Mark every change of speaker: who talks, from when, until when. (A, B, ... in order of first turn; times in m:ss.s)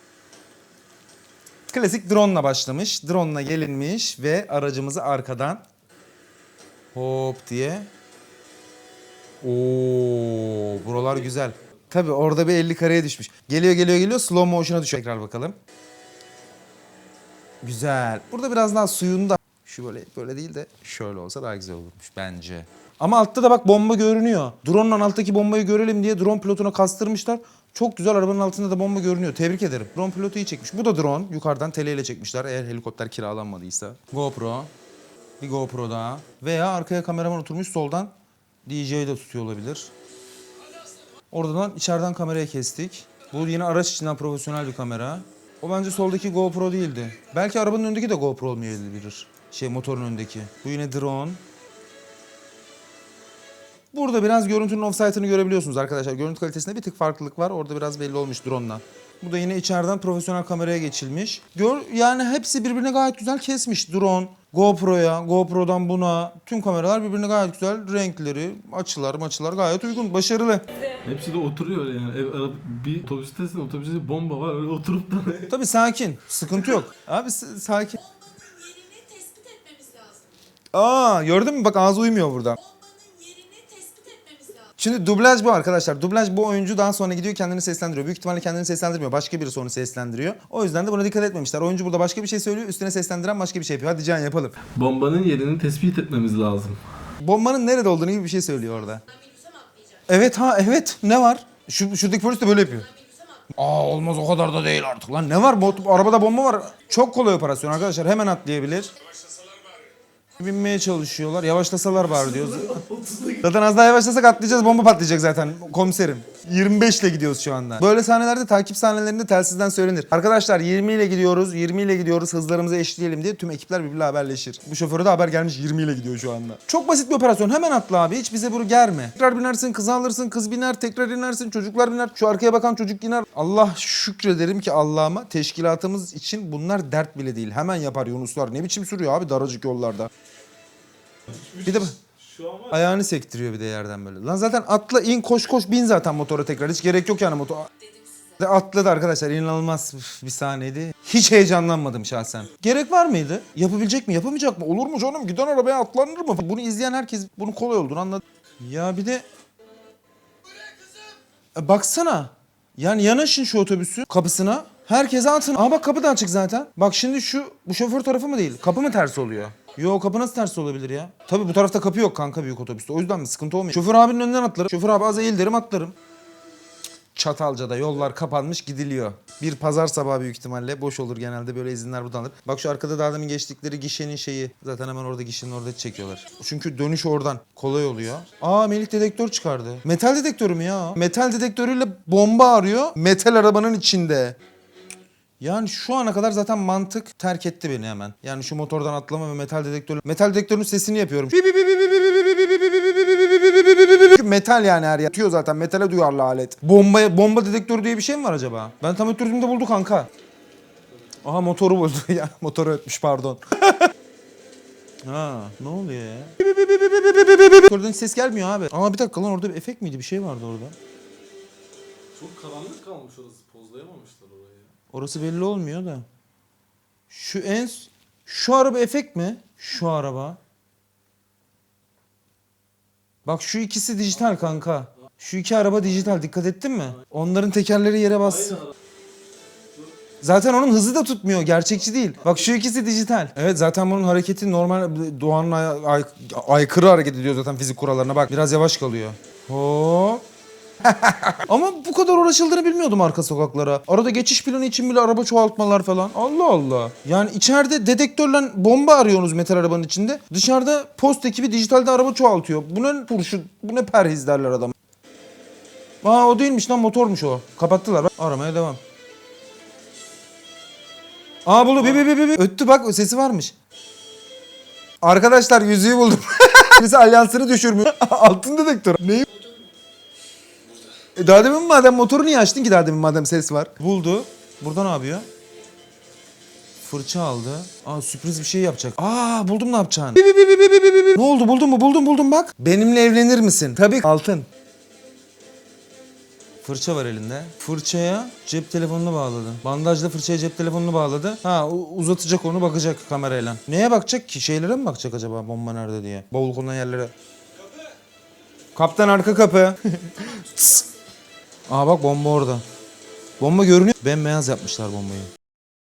0:01.7-0:05.6 A
0:06.9-0:07.9 A
0:09.4-0:15.6 A
0:17.6-0:34.7 A
0:35.4-0:38.1 A
0:38.7-0:39.9 A
0:41.3-0:51.4 A
0:53.9-1:10.7 A
1:11.0-1:15.5 B
1:15.5-1:18.0 A
1:18.0-1:20.3 C
1:20.7-1:22.6 A
1:22.6-1:24.7 C
1:24.8-1:34.6 A
1:34.7-1:36.8 B
1:37.2-1:39.0 A
1:39.1-1:40.0 C
1:40.1-1:42.9 A
1:43.0-1:43.4 C
1:43.5-1:48.9 A
1:50.4-2:20.1 A
1:52.2-1:53.4 B
2:21.3-2:22.7 B
2:21.6-2:22.0 A
2:22.7-2:27.7 A
2:28.4-2:39.2 A
2:41.6-2:56.0 A
2:57.2-3:14.4 A
3:15.4-3:30.1 A
3:31.2-3:33.9 A
3:35.0-3:40.8 A
3:42.1-3:44.7 B
3:44.9-3:46.0 A
3:47.1-3:50.4 A
3:53.2-3:58.6 A
4:00.2-4:10.2 A
4:10.8-4:24.7 A
4:26.0-4:28.8 A
4:31.4-4:33.5 A
4:35.0-4:39.4 A
4:39.4-4:39.6 C
4:41.2-4:45.3 A
4:46.8-4:54.5 A
4:56.6-5:07.1 A
5:08.8-5:10.9 A
5:11.7-5:12.6 A
5:13.4-5:15.3 A